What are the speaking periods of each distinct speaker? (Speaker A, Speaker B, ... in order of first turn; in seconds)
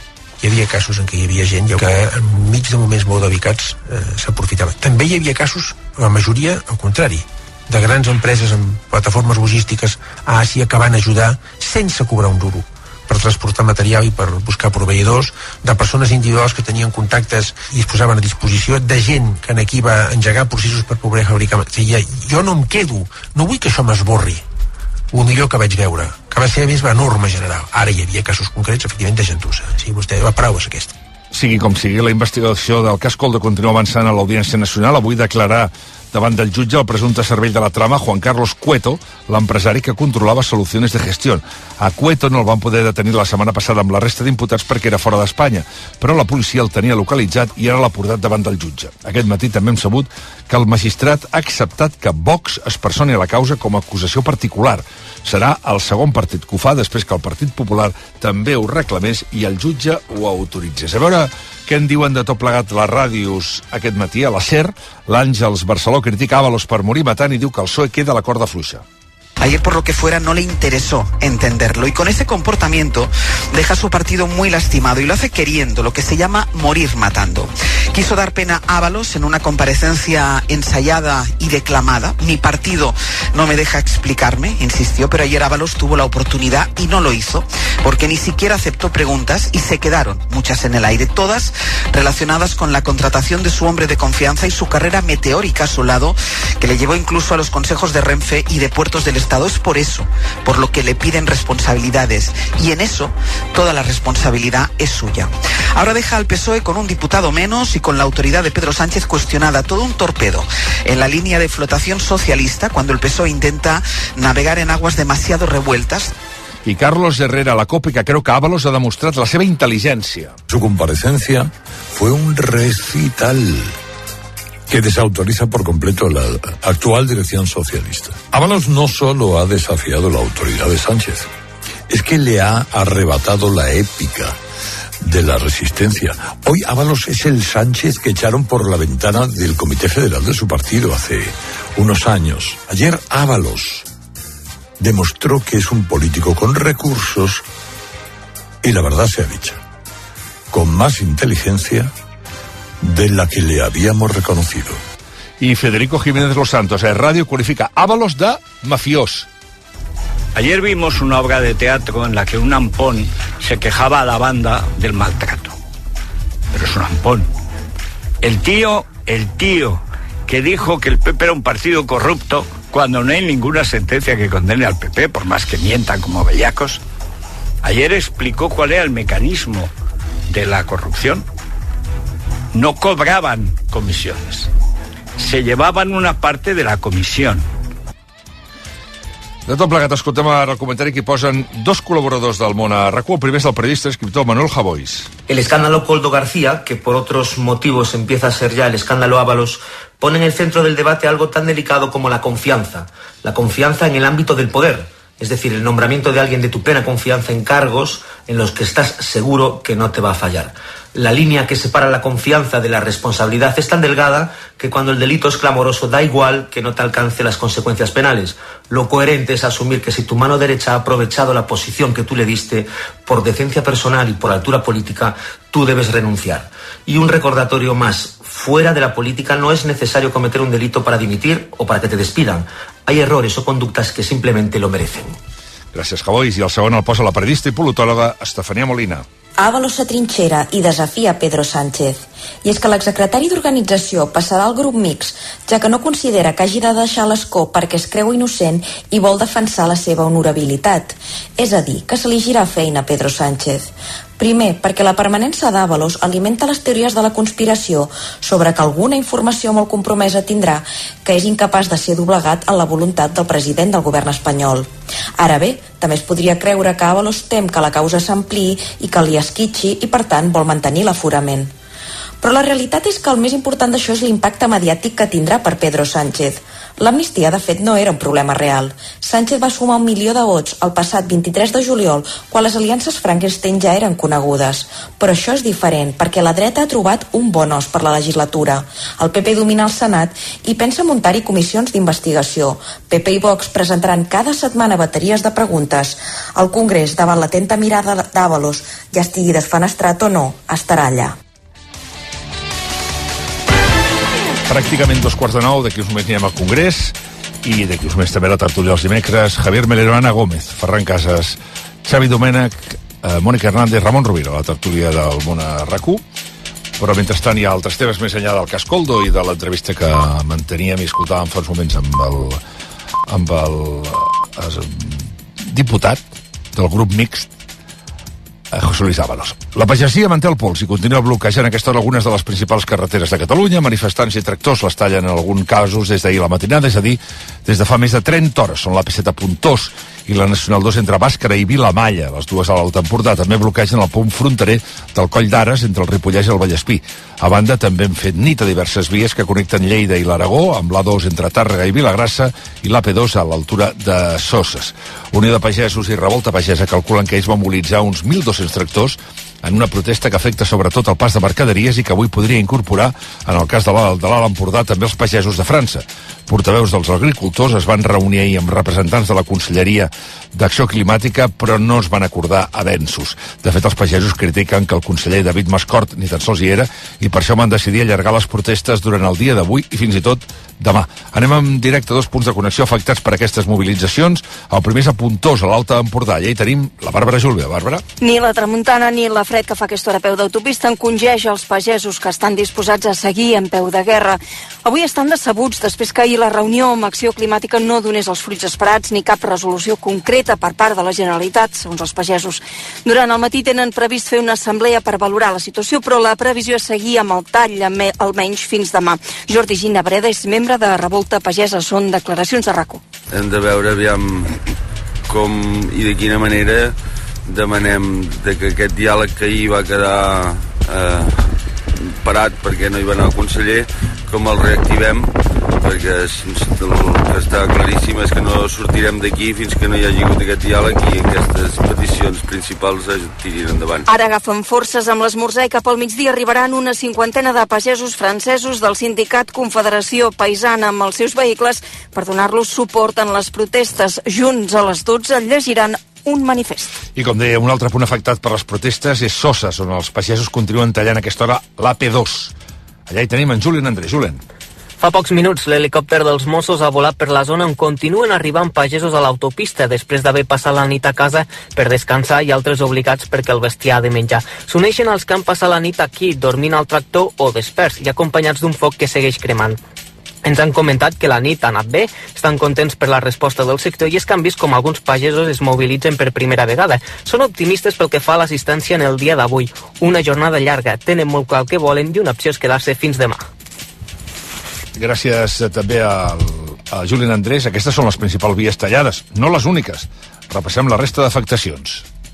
Speaker A: 0.4-24.4, 25.1-30.9
Speaker B: 31.3-68.8, 116.6-120.3, 155.4-159.3, 189.5-195.1, 235.7-239.0, 304.5-316.0, 316.8-322.4, 323.1-327.3, 328.5-387.8, 446.9-452.3, 452.9-454.2, 484.8-491.8
Speaker C: 69.4-116.1
Speaker D: 120.5-123.7, 124.7-131.3, 131.9-134.4, 135.0-143.9, 144.8-147.4, 148.6-149.6, 150.5-151.9, 152.8-154.8
Speaker E: 160.3-165.5, 166.5-167.3, 168.2-176.8, 177.6-179.7, 180.3-181.2, 182.5-184.5, 185.2-187.5
Speaker F: 195.3-235.2
Speaker G: 239.4-264.7, 265.2-271.5, 272.2-301.1
Speaker H: 388.0-412.8, 433.9-446.8
Speaker I: 413.1-414.4, 415.1-416.7, 417.2-421.2, 421.8-433.9
Speaker J: 454.8-469.6, 470.2-483.2